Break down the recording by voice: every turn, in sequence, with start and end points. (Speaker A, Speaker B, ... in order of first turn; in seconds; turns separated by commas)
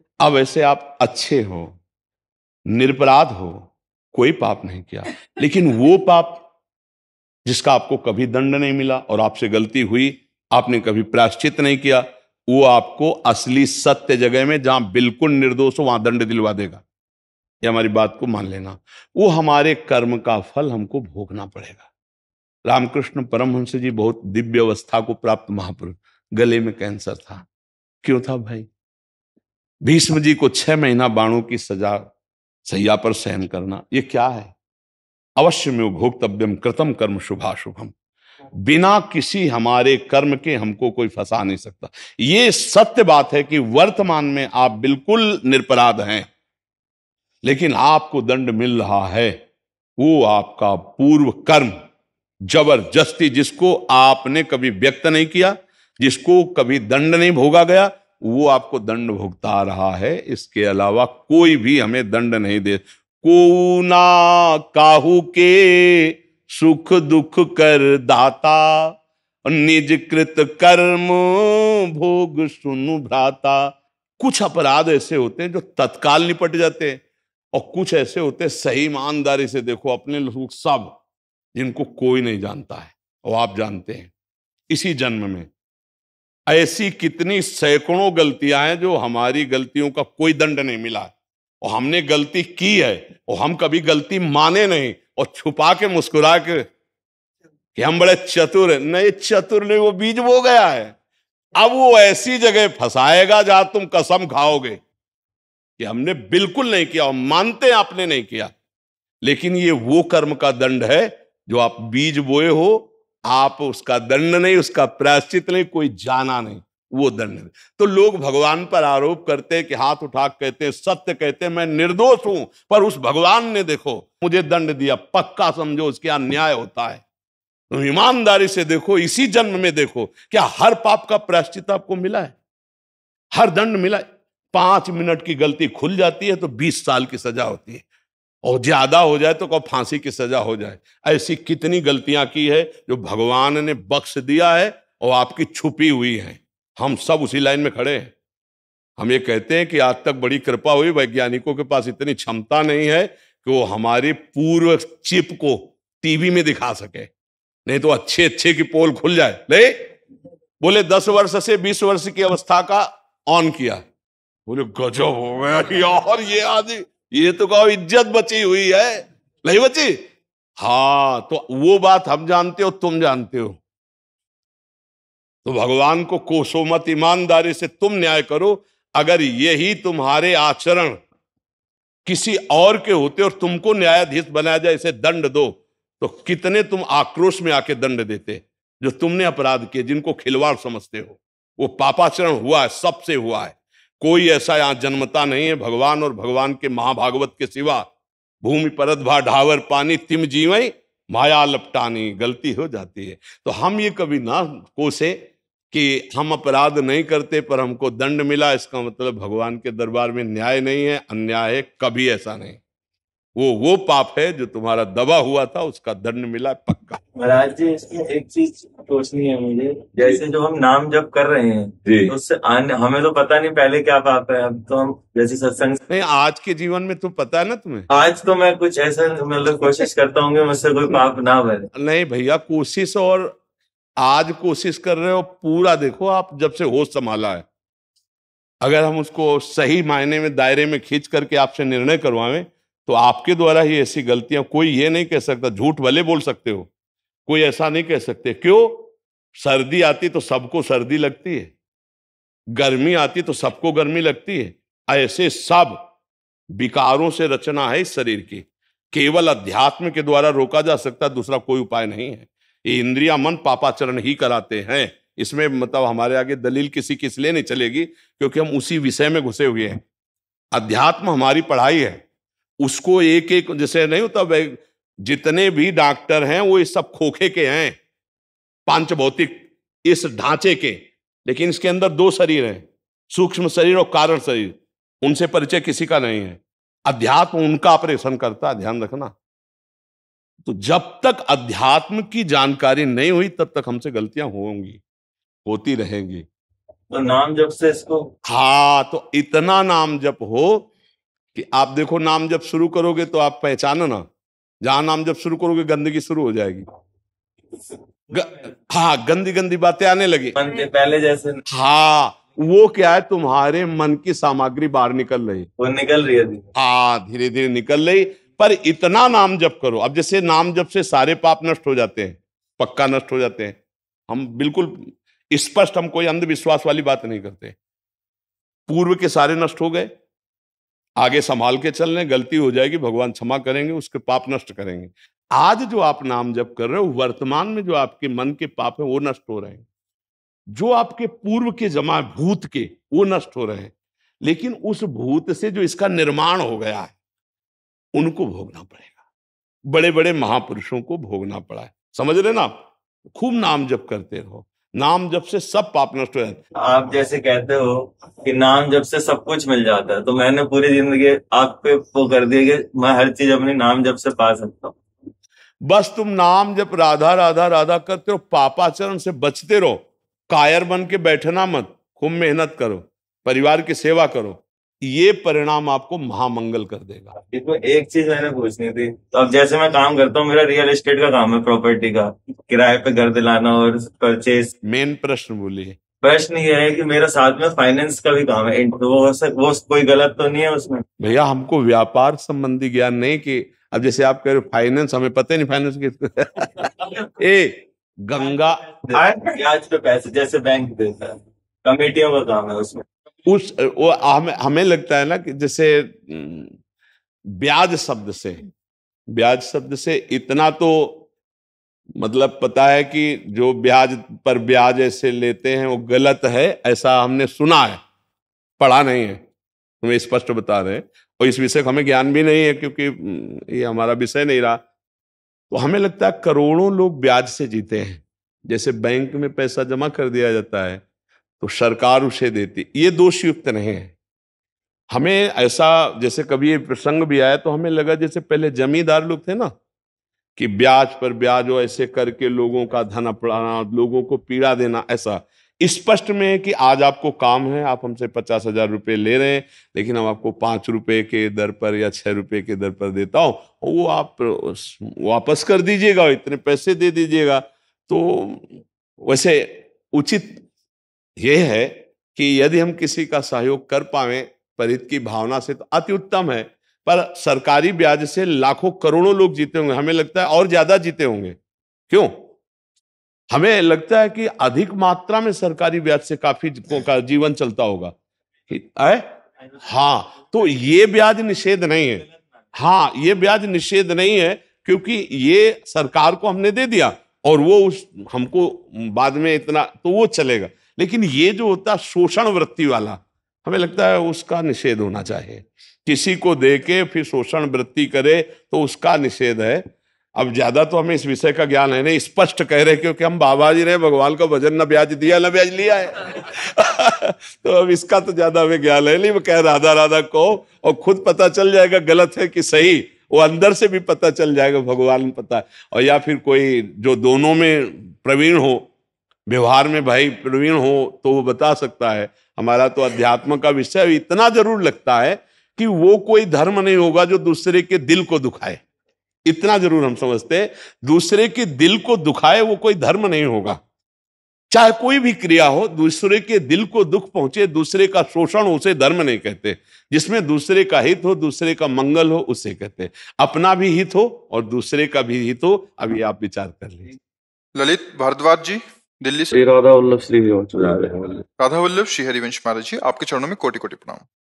Speaker A: 0.2-1.8, Speaker A: 2.7-6.4, Speaker A: 7.5-16.8, Speaker A: 17.6-21.9, Speaker A: 22.7-27.4, Speaker A: 28.0-28.7, Speaker A: 29.8-32.1, Speaker A: 32.7-34.5, Speaker A: 35.4-37.9, Speaker A: 38.6-46.3, Speaker A: 47.4-49.4, Speaker A: 50.0-51.8, Speaker A: 52.5-77.0, Speaker A: 77.5-81.0, Speaker A: 81.5-84.1, Speaker A: 84.7-85.5, Speaker A: 86.5-96.7, Speaker A: 97.8-101.0, Speaker A: 101.6-104.8, Speaker A: 105.8-108.5, Speaker A: 109.2-127.0, Speaker A: 127.7-132.3, Speaker A: 133.3-137.8, Speaker A: 138.4-148.1, Speaker A: 149.0-157.1, Speaker A: 157.7-159.9, Speaker A: 160.6-163.8, Speaker A: 164.5-170.1, Speaker A: 170.6-173.6, Speaker A: 175.4-181.0, Speaker A: 182.1-197.9, Speaker A: 198.4-212.6, Speaker A: 213.4-217.0, Speaker B: 217.2-225.8, Speaker A: 225.9-227.9, Speaker B: 227.9-231.7, Speaker A: 231.8-233.4, Speaker A: 234.0-237.4, Speaker A: 238.6-246.7, Speaker A: 247.3-251.5, Speaker A: 252.6-255.8, Speaker A: 256.5-269.8, Speaker A: 270.5-272.0, Speaker A: 272.6-277.8, Speaker A: 278.7-289.1, Speaker A: 290.5-294.8, Speaker A: 295.4-296.3, Speaker B: 296.9-298.1, Speaker A: 298.3-300.7, Speaker A: 301.4-304.1, Speaker A: 304.6-306.6, Speaker A: 308.1-310.4, Speaker B: 310.4-311.4, Speaker A: 311.5-315.5, Speaker B: 315.6-316.4, Speaker A: 316.6-323.6, Speaker A: 324.1-327.6, Speaker A: 328.7-329.9, Speaker A: 331.0-339.6, Speaker A: 340.5-343.7, Speaker A: 344.2-346.9, Speaker A: 347.9-348.9, Speaker A: 349.7-356.4, Speaker B: 356.6-364.8, Speaker A: 365.6-377.1, Speaker B: 377.3-384.5, Speaker A: 384.6-385.8, Speaker B: 386.0-390.8, Speaker A: 391.0-399.2, Speaker B: 398.8-402.9, Speaker A: 403.3-406.6, Speaker A: 407.4-408.4, Speaker A: 409.1-411.1, Speaker A: 412.0-417.8, Speaker A: 418.6-419.2, Speaker A: 419.8-424.6, Speaker A: 425.5-430.8, Speaker A: 431.4-433.9, Speaker A: 434.9-439.5, Speaker A: 440.4-460.4, Speaker A: 461.2-471.4, Speaker A: 471.9-472.3, Speaker A: 473.3-477.9, Speaker A: 478.5-482.1, Speaker A: 482.6-499.6, Speaker A: 500.2-518.7, Speaker A: 519.3-528.6, Speaker A: 529.3-533.6, Speaker A: 534.5-546.9, Speaker C: 547.5-549.4, Speaker C: 551.4-554.0